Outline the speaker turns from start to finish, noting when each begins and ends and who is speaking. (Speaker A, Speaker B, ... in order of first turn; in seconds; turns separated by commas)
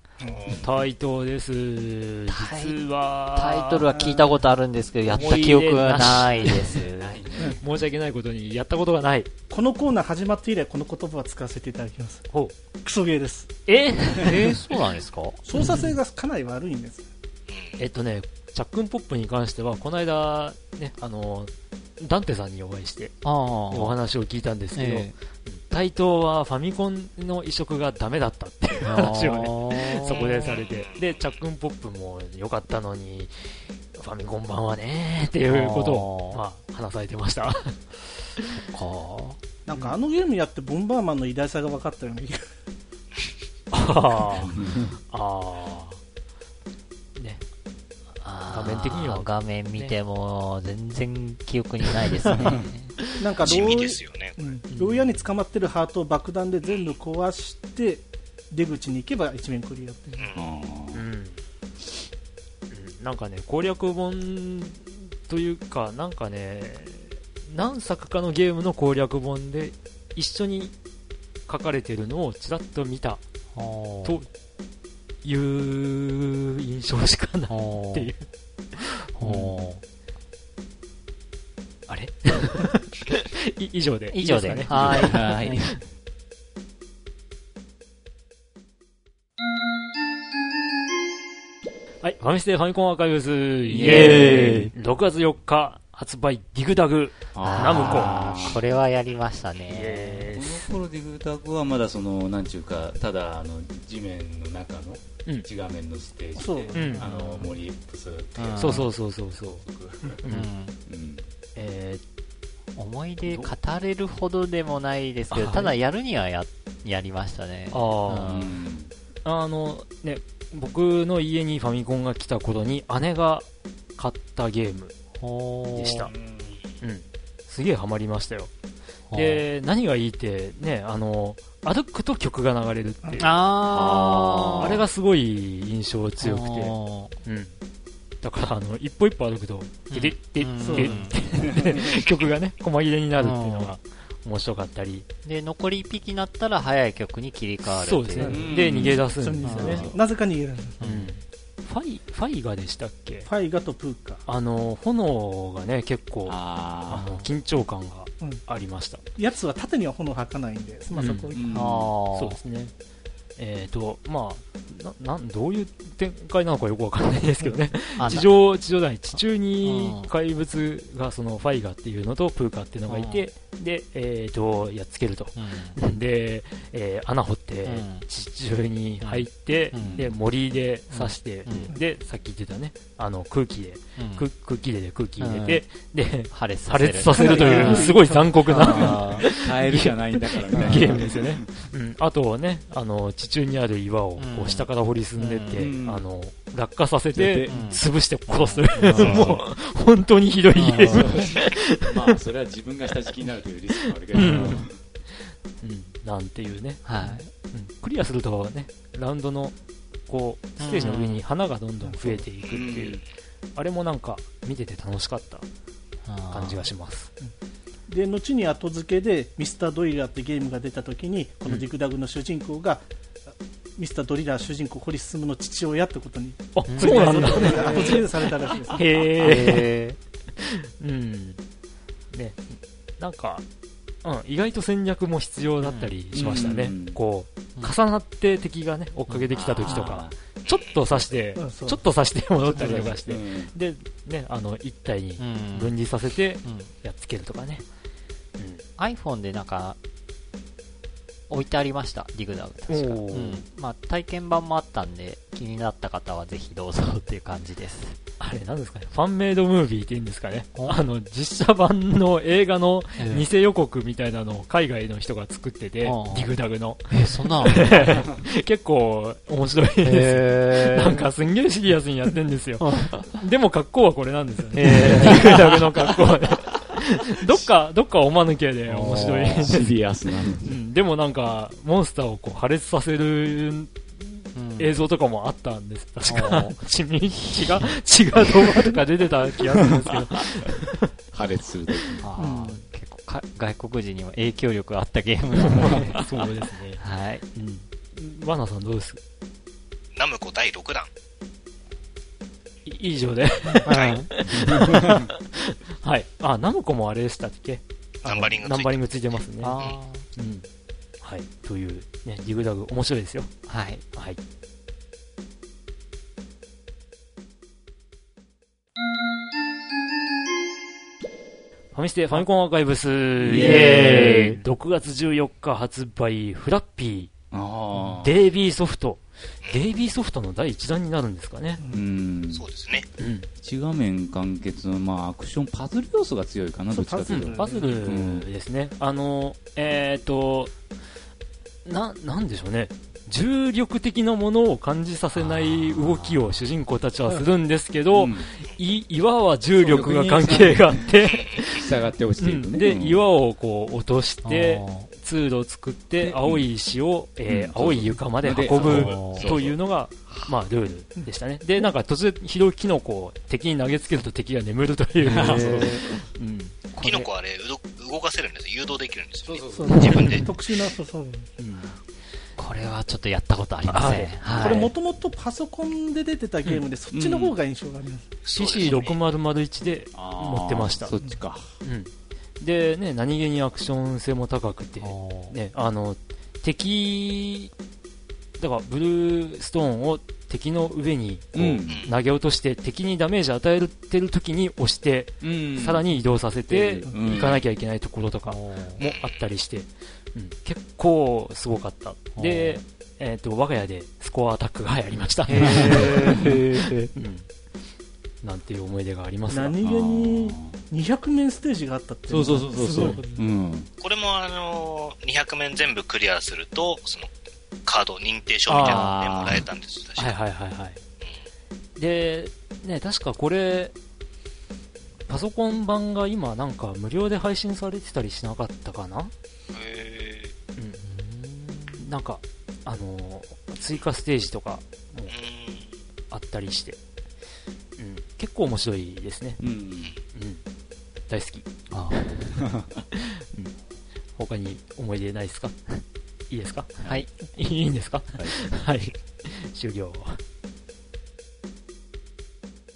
Speaker A: 0.2-0.6, Speaker B: 0.2-0.5, Speaker C: 0.5-3.9, Speaker D: 2.3-2.8, Speaker D: 3.3-7.2, Speaker A: 3.9-4.3, Speaker C: 5.1-6.8, Speaker E: 6.4-7.6, Speaker C: 7.6-9.3, Speaker A: 9.5-12.2, Speaker A: 12.8-13.5, Speaker C: 13.7-14.6, Speaker D: 14.2-15.9, Speaker A: 15.4-17.1, Speaker B: 17.5-17.8, Speaker C: 17.8-23.2, Speaker D: 23.2-24.0, Speaker C: 23.7-37.8, Speaker D: 24.8-25.1, Speaker D: 28.9-30.6, Speaker B: 30.1-31.4, Speaker D: 35.5-36.4, Speaker D: 38.5-39.4, Speaker A: 39.7-42.4, Speaker C: 39.7-40.0, Speaker C: 43.7-46.0, Speaker E: 44.2-45.0, Speaker C: 47.2-47.4, Speaker D: 48.2-53.0, Speaker C: 48.5-50.0, Speaker E: 52.3-52.7, Speaker A: 53.2-60.3, Speaker B: 53.4-54.6, Speaker C: 54.7-55.1, Speaker B: 56.7-57.0, Speaker B: 60.2-60.6, Speaker E: 60.4-61.1, Speaker C: 60.9-61.4, Speaker C: 62.7-70.7, Speaker C: 71.5-73.2, Speaker D: 73.5-74.2, Speaker C: 74.0-74.3, Speaker C: 75.2-78.3, Speaker D: 77.5-78.1, Speaker C: 78.8-79.0, Speaker D: 79.2-79.8, Speaker E: 79.2-79.5, Speaker C: 81.9-85.8, Speaker D: 84.1-85.7, Speaker E: 84.7-85.8, Speaker C: 92.0-98.2, Speaker E: 93.7-94.7, Speaker D: 93.7-94.7, Speaker E: 97.3-98.6, Speaker D: 97.4-100.3, Speaker C: 99.7-100.8, Speaker E: 100.3-110.2, Speaker A: 106.4-107.1, Speaker C: 106.7-107.1, Speaker D: 107.0-107.6, Speaker D: 108.4-108.9, Speaker C: 108.6-109.6, Speaker C: 110.2-110.5, Speaker D: 110.3-110.8, Speaker E: 110.9-111.2, Speaker C: 111.6-112.0, Speaker D: 112.8-118.6, Speaker C: 113.3-113.5, Speaker C: 115.3-115.7, Speaker C: 117.7-118.4, Speaker E: 118.2-118.9, Speaker C: 119.2-124.9, Speaker D: 125.2-126.0, Speaker C: 125.7-126.1, Speaker E: 125.9-126.6, Speaker C: 126.8-128.5, Speaker D: 129.1-129.5, Speaker C: 129.1-137.6, Speaker A: 133.0-133.3, Speaker D: 133.2-134.8, Speaker E: 133.7-134.7, Speaker D: 136.2-137.2, Speaker C: 138.2-145.1, Speaker D: 139.9-141.2, Speaker A: 140.6-141.1, Speaker E: 141.4-142.1, Speaker D: 143.2-143.8, Speaker D: 145.2-148.4, Speaker C: 147.7-149.9, Speaker A: 148.2-150.8, Speaker E: 148.2-149.1, Speaker D: 149.4-149.9, Speaker E: 149.7-150.0, Speaker D: 150.8-151.1, Speaker C: 150.8-153.3, Speaker A: 153.3-154.2, Speaker C: 154.3-159.0, Speaker E: 156.3-157.2, Speaker D: 157.0-157.3, Speaker A: 159.2-161.6, Speaker C: 160.9-161.3, Speaker E: 161.3-161.9, Speaker D: 161.5-162.4, Speaker C: 162.2-162.7, Speaker C: 163.4-201.9, Speaker D: 168.0-168.3, Speaker D: 169.1-170.1, Speaker D: 172.9-173.2, Speaker D: 175.3-175.8, Speaker D: 177.7-178.1, Speaker D: 179.0-180.0, Speaker E: 179.8-180.2, Speaker D: 180.9-181.8, Speaker D: 184.0-184.3, Speaker D: 185.2-185.6, Speaker D: 186.3-189.3, Speaker A: 187.1-188.2, Speaker E: 187.3-191.5, Speaker D: 190.5-191.0, Speaker D: 194.2-195.7, Speaker E: 195.6-196.0, Speaker E: 197.1-197.8, Speaker D: 197.5-199.4, Speaker E: 198.8-199.4, Speaker D: 200.6-201.3, Speaker E: 200.9-204.8, Speaker C: 204.1-204.7, Speaker D: 204.1-204.6, Speaker C: 205.6-209.6, Speaker D: 206.8-207.3, Speaker C: 210.1-213.0, Speaker D: 210.6-211.2, Speaker A: 211.8-212.2, Speaker E: 212.5-213.0, Speaker C: 213.6-215.5, Speaker D: 216.1-216.7, Speaker C: 216.3-217.1, Speaker A: 217.9-222.9, Speaker A: 223.8-228.9, Speaker C: 226.5-228.0, Speaker D: 226.7-228.0, Speaker E: 227.6-228.0, Speaker C: 228.7-229.8, Speaker D: 229.0-230.0, Speaker C: 230.4-231.4, Speaker C: 232.1-232.4, Speaker C: 233.0-233.4, Speaker C: 234.0-247.7, Speaker D: 235.6-236.0, Speaker E: 236.1-237.0, Speaker D: 239.1-239.9, Speaker E: 239.3-240.2, Speaker B: 240.5-240.7, Speaker A: 241.4-241.8, Speaker E: 242.5-243.6, Speaker D: 242.6-242.9, Speaker D: 245.2-245.8, Speaker D: 246.4-246.7, Speaker D: 248.8-249.8, Speaker D: 251.3-258.0, Speaker C: 252.7-253.4, Speaker C: 258.2-279.7, Speaker D: 260.6-260.9, Speaker D: 263.0-263.3, Speaker D: 265.8-266.3, Speaker D: 266.9-267.9, Speaker D: 269.8-271.1, Speaker D: 272.6-273.2, Speaker D: 274.5-275.6, Speaker D: 278.7-279.6, Speaker E: 278.9-280.6, Speaker C: 280.4-290.9, Speaker D: 284.4-284.8, Speaker D: 286.1-288.7, Speaker E: 291.1-292.1, Speaker C: 291.9-292.3, Speaker D: 292.0-296.1, Speaker A: 292.2-292.5, Speaker C: 295.4-299.0, Speaker D: 296.8-297.2, Speaker B: 299.9-300.9, Speaker C: 302.6-309.6, Speaker D: 303.7-304.1, Speaker B: 303.7-304.0, Speaker E: 304.3-305.1, Speaker B: 308.0-308.9, Speaker D: 309.4-310.1, Speaker C: 310.1-310.5, Speaker C: 311.0-313.3, Speaker D: 313.5-313.8, Speaker C: 313.9-314.2, Speaker C: 321.7-327.1, Speaker E: 323.3-324.2, Speaker D: 323.3-324.4, Speaker E: 327.3-328.1, Speaker C: 327.8-331.6, Speaker B: 329.4-329.7, Speaker E: 331.7-332.5, Speaker B: 332.3-332.9, Speaker C: 333.0-333.3, Speaker E: 333.4-338.3, Speaker A: 336.7-337.8, Speaker C: 337.1-340.5, Speaker C: 341.6-351.7, Speaker D: 345.2-346.2, Speaker E: 347.9-348.3, Speaker E: 349.6-353.0, Speaker B: 351.1-351.5, Speaker C: 352.2-366.6, Speaker D: 354.2-354.9, Speaker E: 356.0-356.4, Speaker E: 357.3-359.6, Speaker D: 358.6-359.3, Speaker D: 365.0-367.1, Speaker E: 365.1-366.1, Speaker B: 366.8-370.3, Speaker E: 369.3-370.1, Speaker A: 369.5-371.3, Speaker C: 371.4-371.8, Speaker D: 372.4-374.7, Speaker C: 373.7-374.7, Speaker A: 374.4-378.1, Speaker E: 376.9-377.4, Speaker B: 378.2-379.0, Speaker C: 378.3-381.0, Speaker E: 379.9-381.6, Speaker C: 381.6-387.5, Speaker D: 384.8-385.4, Speaker C: 388.4-406.3, Speaker E: 391.3-391.9, Speaker B: 391.7-391.9, Speaker E: 395.2-395.9, Speaker E: 396.5-397.4, Speaker D: 398.3-398.8, Speaker B: 398.8-399.2, Speaker D: 402.2-402.6, Speaker D: 405.3-406.9, Speaker E: 405.3-406.3, Speaker C: 406.9-407.3, Speaker C: 408.2-409.6, Speaker A: 409.3-413.2, Speaker E: 409.6-410.6, Speaker E: 412.1-413.7, Speaker B: 413.8-417.1, Speaker B: 417.7-420.2, Speaker C: 418.5-419.0, Speaker E: 418.6-419.4, Speaker D: 418.6-418.9, Speaker C: 420.0-420.8, Speaker C: 421.8-423.7, Speaker C: 425.1-429.1, Speaker B: 429.5-430.3, Speaker C: 430.6-435.2, Speaker D: 430.8-431.8, Speaker B: 435.1-435.7, Speaker C: 436.1-436.8, Speaker C: 437.8-439.4, Speaker E: 439.4-440.0, Speaker C: 440.1-440.4, Speaker C: 441.1-442.4, Speaker D: 441.7-442.1, Speaker E: 442.3-442.8, Speaker C: 443.1-443.6, Speaker C: 444.2-445.8, Speaker C: 446.3-450.2, Speaker E: 448.1-448.6